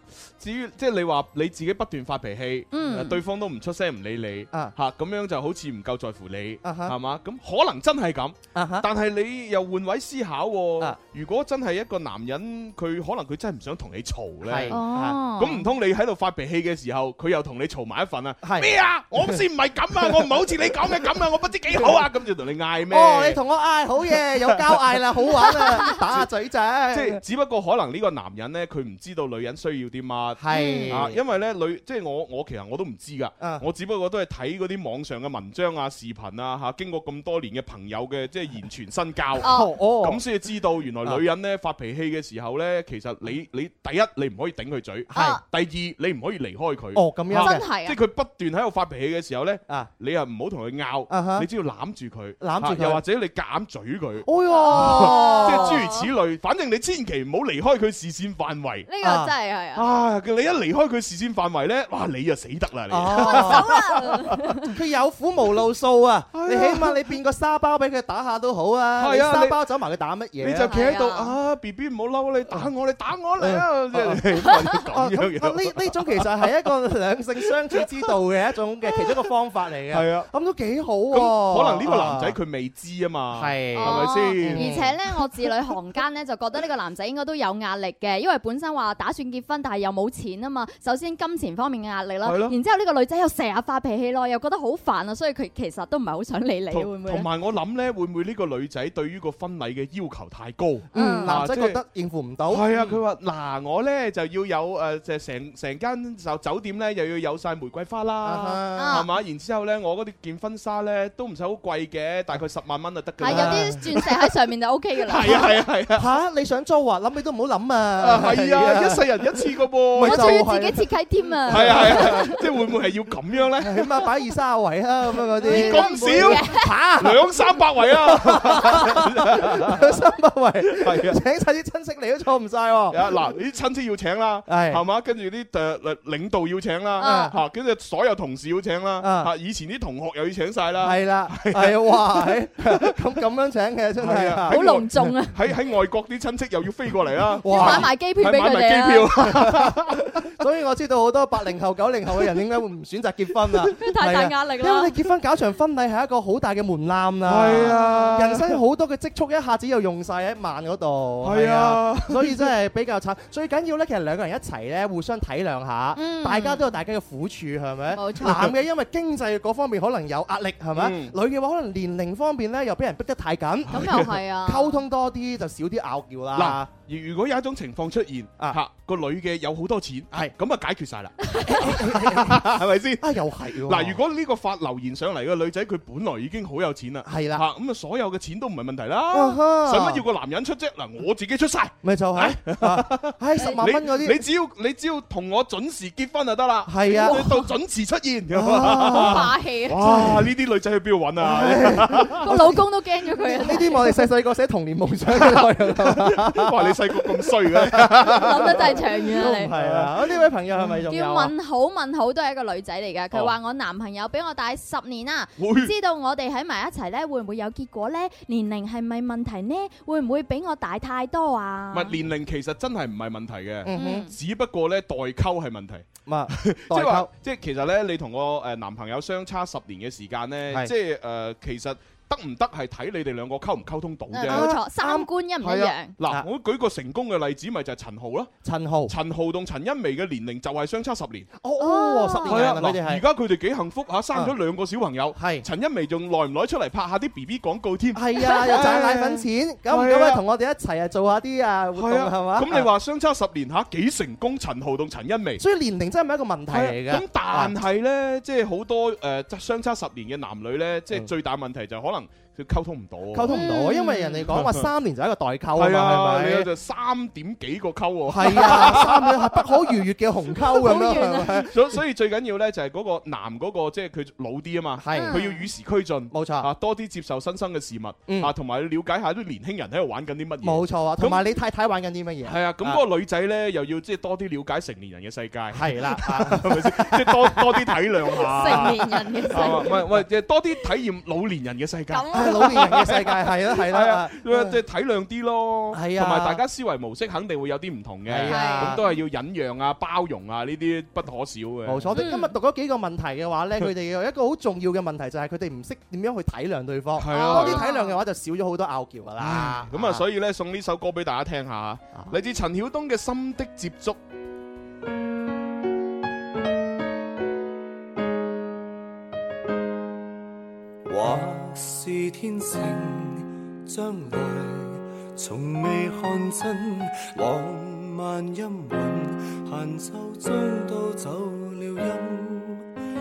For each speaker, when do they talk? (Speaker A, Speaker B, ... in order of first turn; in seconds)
Speaker A: 0.4-14.8, 15.3-23.4, 24.1-25.0, 25.9-26.3, 26.9-58.9, 59.8-64.4, 66.3-67.1, 69.0-69.6, 70.4-76.5, 79.9-80.3, 81.1-84.8, 92.2-92.6, 96.7-101.8, 102.5-114.2, 115.1-116.1, 118.0-120.5, 121.5-124.1, 125.4-129.9, 130.7-131.2, 132.9-143.0, 144.0-150.3, 157.3-158.6, 161.2-162.5, 168.2-168.5, 170.8-171.2, 173.7-174.2, 176.3-183.1, 183.6-202.3, 205.1-210.8, 215.4-215.7, 221.7-234.6, 235.4-238.3, 238.9-241.3, 242.3-250.2, 251.8-255.4, 256.5-263.3, 264.2-264.7, 265.6-269.7, 271.4-281.3, 282.2-302.1, 307.0-307.7, 309.2-314.0
Speaker B: 2.7-3.2, 14.7-15.7, 25.5-25.9, 30.5-31.0, 39.4-39.7, 45.1-45.4, 47.4-48.0, 54.5-56.1, 58.9-59.9, 63.1-64.7, 70.7-71.3, 83.8-97.3, 100.9-101.3, 108.8-109.1, 113.2-115.4, 120.0-122.4, 125.4-126.8, 137.0-137.3, 144.5-145.3, 147.5-149.2, 153.8-154.9, 157.7-158.1, 165.9-166.7, 167.9-168.5, 173.7-174.8, 193.4-193.6, 197.1-197.4, 198.9-200.0, 202.2-204.0, 208.1-209.5, 210.9-222.0, 223.7-224.1, 234.1-235.9, 241.6-242.4, 248.2-248.6, 263.3-264.2, 270.5-271.4, 274.9-275.4, 288.3-289.7, 291.9-292.6, 298.3-299.0, 301.9-302.3, 307.1-308.0
Speaker C: 6.6-7.0, 8.6-8.9, 14.4-15.2, 18.4-19.4, 22.9-27.2, 30.4-31.2, 39.4-40.2, 45.1-45.4, 46.9-47.6, 51.1-51.5, 52.4-53.0, 54.2-55.9, 59.0-59.3, 62.9-63.8, 64.7-70.8, 73.4-74.3, 74.8-82.4, 83.3-84.9, 100.9-102.7, 108.2-109.0, 113.2-113.8, 115.3-119.0, 119.9-120.8, 121.5-122.4, 123.6-127.3, 127.9-133.2, 134.5-134.8, 137.0-137.4, 139.0-139.3, 140.8-145.0, 147.3-147.9, 149.2-173.9, 174.4-176.7, 181.5-184.0, 187.1-187.4, 189.1-190.0, 191.8-194.3, 196.7-197.4, 198.3-199.3, 199.8-200.3, 201.2-202.6, 203.2-211.3, 223.7-224.1, 226.1-227.1, 234.3-235.1, 238.4-238.9, 241.4-243.0, 245.2-245.5, 247.9-252.7, 255.4-257.6, 263.1-266.5, 268.1-271.8, 274.8-275.2, 276.1-276.5, 278.1-278.3, 280.4-282.8, 285.5-287.8, 288.4-288.8, 289.4-290.0, 292.1-294.6, 295.7-296.4, 298.1-298.8, 301.7-310.0
Speaker D: 320.9-332.7